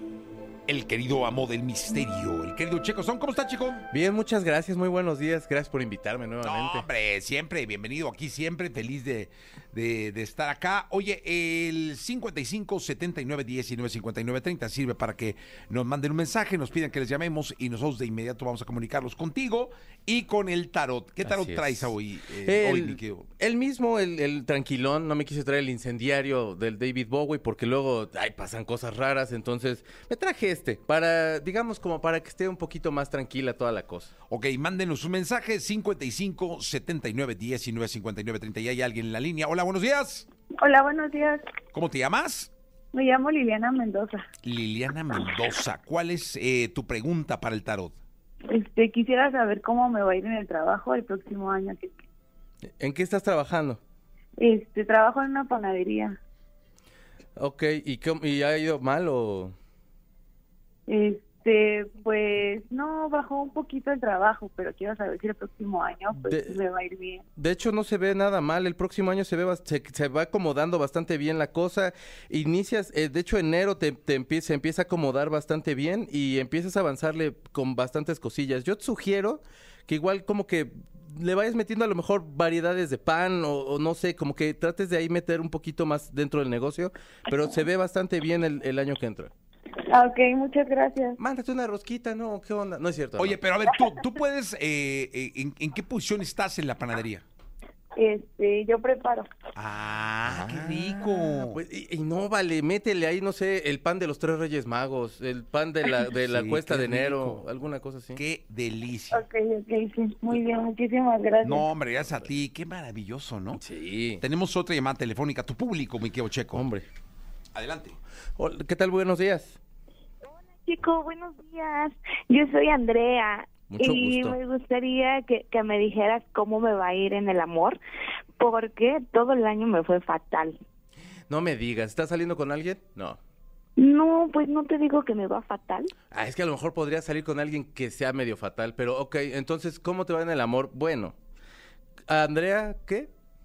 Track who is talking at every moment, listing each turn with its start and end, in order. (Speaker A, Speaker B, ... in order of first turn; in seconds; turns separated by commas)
Speaker A: 0.7-3.9, Speaker B: 3.9-6.8, Speaker A: 6.4-23.2, Speaker B: 21.2-34.1, Speaker A: 34.3-40.2, Speaker C: 40.6-41.4, Speaker A: 41.7-42.5, Speaker C: 42.9-44.2, Speaker A: 44.4-48.0, Speaker C: 48.5-51.9, Speaker B: 52.8-53.8, Speaker C: 54.4-56.2, Speaker B: 57.4-59.5, Speaker C: 60.9-67.2, Speaker B: 66.1-66.6, Speaker B: 67.3-89.3, Speaker C: 89.9-91.2, Speaker B: 91.2-93.4, Speaker A: 93.2-97.2, Speaker C: 98.0-99.2, Speaker A: 99.5-101.6, Speaker B: 100.2-108.2, Speaker A: 106.1-107.5, Speaker A: 108.1-109.2, Speaker C: 109.1-111.6, Speaker A: 111.4-113.6, Speaker B: 113.5-114.2, Speaker A: 114.2-116.6, Speaker B: 116.5-116.9, Speaker A: 117.5-118.0, Speaker B: 118.4-119.6, Speaker D: 120.3-127.8, Speaker B: 123.7-124.4, Speaker D: 128.4-130.6, Speaker B: 131.3-133.2, Speaker D: 133.8-135.9, Speaker B: 136.1-141.1, Speaker B: 142.1-143.1